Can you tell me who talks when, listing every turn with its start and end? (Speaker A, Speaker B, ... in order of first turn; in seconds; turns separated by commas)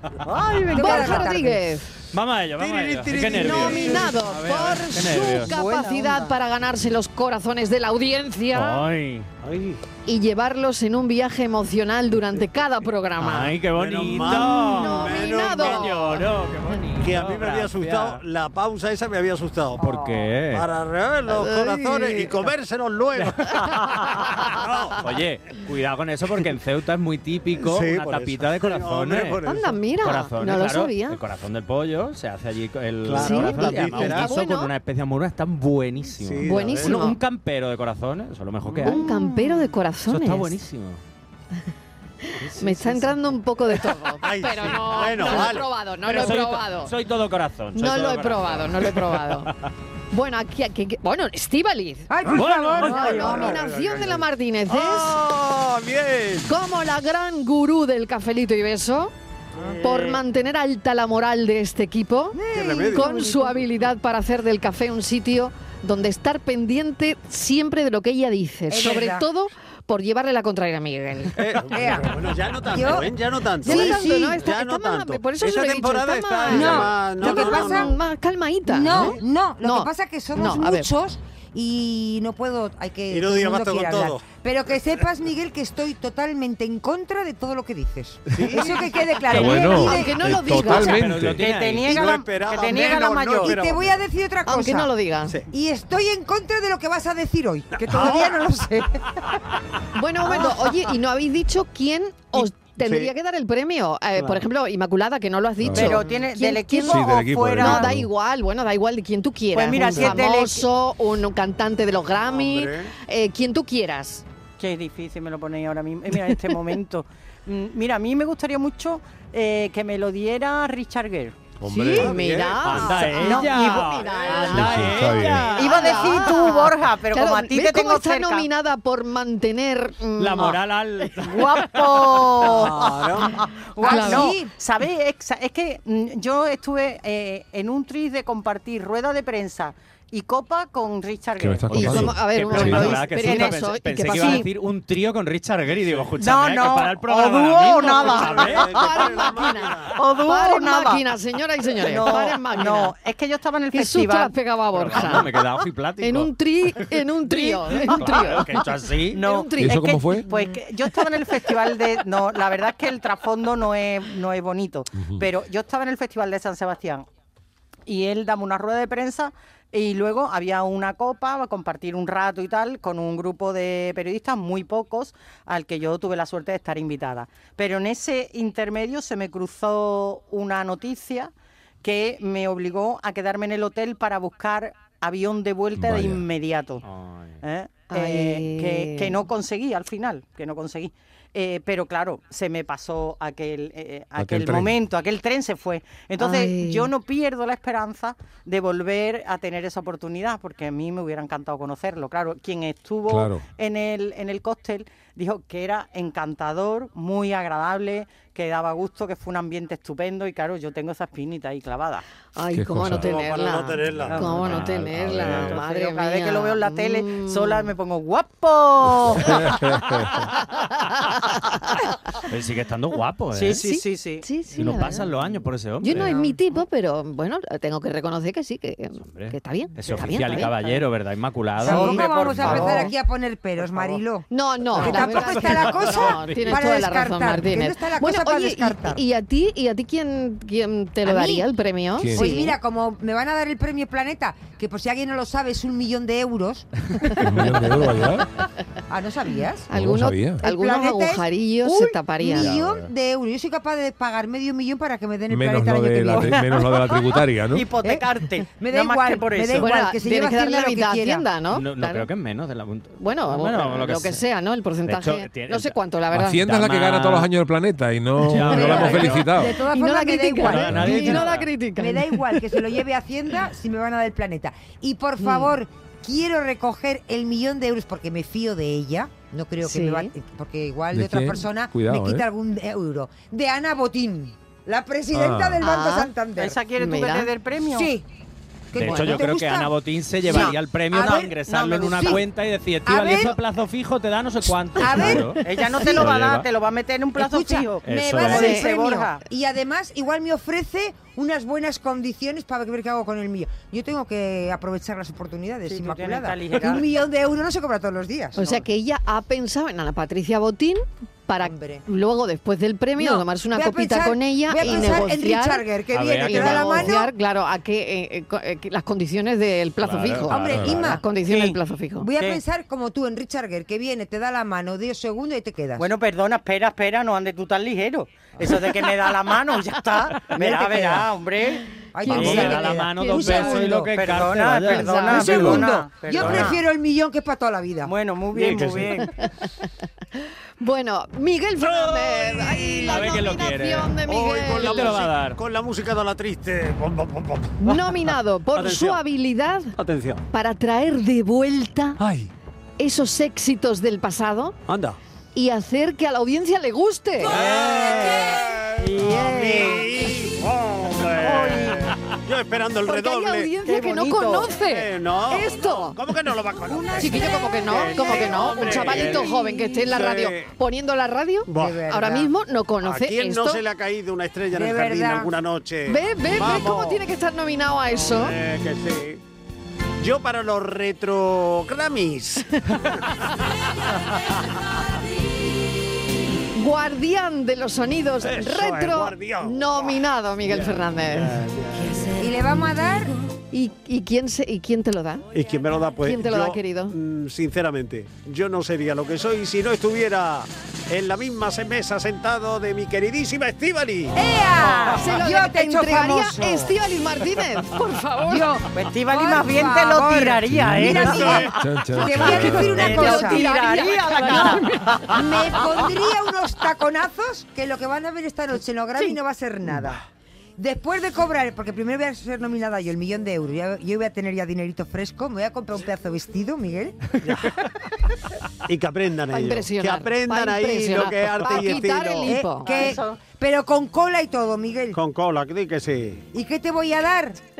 Speaker A: 0.2-1.3, Speaker B: 0.7-1.6, Speaker C: 0.7-1.9, Speaker D: 2.1-5.6, Speaker E: 2.6-5.2, Speaker C: 3.4-8.8, Speaker A: 5.6-6.1, Speaker D: 8.5-9.3, Speaker E: 9.4-9.8, Speaker C: 10.1-13.6, Speaker D: 13.2-18.2, Speaker E: 13.8-16.2, Speaker C: 14.2-16.0, Speaker E: 17.0-25.0, Speaker D: 19.8-20.7, Speaker C: 21.3-22.5, Speaker C: 23.8-24.3, Speaker D: 25.0-29.4, Speaker E: 27.6-29.8, Speaker C: 29.4-31.2, Speaker D: 30.0-39.1, Speaker E: 33.0-34.3, Speaker C: 33.2-34.7, Speaker E: 36.2-37.1, Speaker C: 36.4-37.2, Speaker E: 38.6-39.0, Speaker C: 38.8-40.6, Speaker D: 40.1-41.0, Speaker C: 42.3-46.9, Speaker D: 42.4-43.2, Speaker E: 44.2-45.7, Speaker D: 45.0-49.5, Speaker C: 47.8-49.5, Speaker C: 50.1-52.1, Speaker B: 52.1-53.5, Speaker D: 52.3-53.3, Speaker E: 52.3-56.5, Speaker C: 52.8-55.2, Speaker C: 56.5-59.1, Speaker C: 59.8-62.4, Speaker B: 62.3-63.6, Speaker E: 62.5-63.0, Speaker C: 62.9-71.4, Speaker B: 68.7-69.3, Speaker E: 71.4-78.0, Speaker B: 71.7-74.4, Speaker C: 73.6-80.9, Speaker B: 76.5-77.9, Speaker B: 78.7-90.2, Speaker E: 83.1-85.0, Speaker E: 88.3-89.0, Speaker F: 89.3-91.4, Speaker C: 89.3-91.1, Speaker D: 90.7-92.1, Speaker A: 91.4-93.6, Speaker E: 91.8-94.0, Speaker B: 92.6-94.9, Speaker C: 94.5-95.4, Speaker B: 95.5-99.0, Speaker E: 97.7-98.4, Speaker C: 100.0-114.2, Speaker E: 102.3-103.1, Speaker E: 104.2-104.4, Speaker F: 105.6-106.0, Speaker A: 105.7-107.9, Speaker F: 106.9-108.1, Speaker A: 109.5-110.7, Speaker E: 112.3-112.9, Speaker A: 114.6-121.4, Speaker F: 121.6-122.2, Speaker C: 121.7-124.9, Speaker E: 122.0-123.1, Speaker D: 122.6-126.4, Speaker A: 123.2-128.5, Speaker E: 124.1-124.5, Speaker F: 124.5-125.5, Speaker C: 125.5-130.6, Speaker D: 130.2-132.7, Speaker A: 131.2-144.5, Speaker E: 132.5-133.3, Speaker B: 133.8-134.5, Speaker C: 133.8-134.3, Speaker F: 141.4-142.9, Speaker C: 141.7-144.4, Speaker D: 141.7-149.3, Speaker A: 146.2-148.6, Speaker E: 147.2-150.0, Speaker C: 148.7-149.8, Speaker A: 150.0-151.0, Speaker C: 150.3-152.9, Speaker A: 151.8-154.3, Speaker C: 153.7-155.4, Speaker D: 154.7-156.3, Speaker C: 156.0-158.5, Speaker A: 157.3-157.9, Speaker D: 157.9-159.2, Speaker A: 159.1-167.1, Speaker C: 159.2-159.9, Speaker F: 159.6-160.3, Speaker F: 165.0-165.2, Speaker A: 167.9-181.3, Speaker A: 181.8-186.8, Speaker F: 185.8-186.2, Speaker D: 186.8-187.4, Speaker A: 187.4-212.0, Speaker C: 187.9-189.2, Speaker F: 194.2-194.7, Speaker C: 196.2-196.9, Speaker F: 203.1-203.4, Speaker C: 212.4-217.7, Speaker F: 212.5-213.1, Speaker E: 212.9-214.6, Speaker D: 214.3-215.3, Speaker E: 215.1-215.6, Speaker A: 215.2-219.6, Speaker F: 219.2-220.3, Speaker C: 220.8-221.6, Speaker D: 222.2-223.6, Speaker A: 223.3-224.2, Speaker C: 223.5-225.1, Speaker D: 224.6-226.1, Speaker C: 225.8-230.5, Speaker B: 225.9-226.4, Speaker D: 229.0-232.9, Speaker A: 230.3-230.8, Speaker B: 231.6-239.0, Speaker A: 231.6-232.9, Speaker C: 231.7-232.9, Speaker C: 234.3-242.5, Speaker D: 234.8-236.5, Speaker B: 241.1-241.5, Speaker F: 242.0-242.4, Speaker B: 242.2-246.7, Speaker F: 247.2-248.3, Speaker B: 248.9-249.7, Speaker C: 249.7-252.5, Speaker F: 249.7-250.4, Speaker B: 250.4-256.4, Speaker D: 252.3-252.9, Speaker F: 255.3-257.7, Speaker A: 256.1-259.9, Speaker B: 257.8-261.2, Speaker C: 259.6-262.1, Speaker D: 261.5-264.2, Speaker C: 263.0-266.4, Speaker D: 264.9-267.3, Speaker F: 266.1-269.6, Speaker D: 268.2-269.4, Speaker C: 268.5-272.5, Speaker B: 268.7-286.6, Speaker D: 270.4-271.5, Speaker F: 270.7-271.0, Speaker C: 275.2-275.5, Speaker C: 279.6-280.1, Speaker F: 280.9-282.2, Speaker F: 285.1-285.6, Speaker C: 285.6-286.1, Speaker A: 286.4-287.9, Speaker C: 286.8-287.3, Speaker B: 287.8-288.1, Speaker B: 288.7-291.4, Speaker D: 288.8-296.5, Speaker C: 288.8-289.2, Speaker A: 291.5-292.2, Speaker B: 291.9-292.2, Speaker B: 292.9-293.4, Speaker B: 294.8-296.1, Speaker A: 295.4-299.2, Speaker B: 297.2-308.4, Speaker D: 297.8-298.5, Speaker C: 298.3-298.6, Speaker A: 305.7-306.9, Speaker C: 308.4-315.7, Speaker B: 311.4-311.8, Speaker B: 313.0-317.1, Speaker D: 314.6-315.1, Speaker D: 315.9-317.0, Speaker C: 316.2-322.1, Speaker D: 319.8-320.8, Speaker B: 320.3-321.1, Speaker A: 321.2-321.6, Speaker B: 322.0-325.9, Speaker A: 325.8-332.7, Speaker B: 330.4-331.1, Speaker B: 331.9-334.0, Speaker D: 332.0-335.7, Speaker C: 332.3-333.6, Speaker A: 333.2-336.6, Speaker C: 334.7-335.4, Speaker B: 334.9-337.9, Speaker D: 336.2-336.5, Speaker A: 337.8-339.1, Speaker E: 338.3-339.0, Speaker C: 340.6-345.1, Speaker E: 341.6-343.1, Speaker D: 342.7-344.0, Speaker E: 344.1-347.8, Speaker D: 344.5-345.4, Speaker C: 347.6-349.7, Speaker E: 348.5-349.0, Speaker E: 349.8-350.2, Speaker C: 350.3-352.0, Speaker E: 352.0-352.3, Speaker C: 352.8-354.6, Speaker E: 354.7-355.0, Speaker C: 355.4-357.4, Speaker E: 357.2-363.6, Speaker A: 357.3-358.2, Speaker A: 358.8-360.0, Speaker A: 361.2-361.9, Speaker C: 362.9-366.0, Speaker A: 363.6-364.6, Speaker E: 364.6-370.5, Speaker A: 366.7-367.3, Speaker C: 367.0-373.6, Speaker B: 369.1-369.8, Speaker E: 371.5-371.8, Speaker B: 371.6-372.3, Speaker E: 372.8-377.0, Speaker B: 374.5-375.3, Speaker C: 375.9-378.4, Speaker E: 377.9-379.2, Speaker E: 380.0-384.6, Speaker C: 386.6-392.2, Speaker E: 388.2-392.2, Speaker B: 392.2-393.1, Speaker C: 393.5-395.3, Speaker E: 395.3-405.0, Speaker C: 396.0-397.0, Speaker B: 404.1-406.8, Speaker C: 405.0-408.5, Speaker B: 408.2-413.5, Speaker A: 408.7-415.2, Speaker F: 410.5-411.0, Speaker E: 411.0-411.4, Speaker F: 411.6-413.0, Speaker C: 412.5-415.2, Speaker B: 415.1-420.0, Speaker B: 420.6-427.0, Speaker E: 427.2-427.5, Speaker E: 428.7-432.4, Speaker C: 429.3-432.7, Speaker B: 432.2-435.0, Speaker A: 432.6-433.2, Speaker E: 434.9-436.2, Speaker B: 436.3-437.4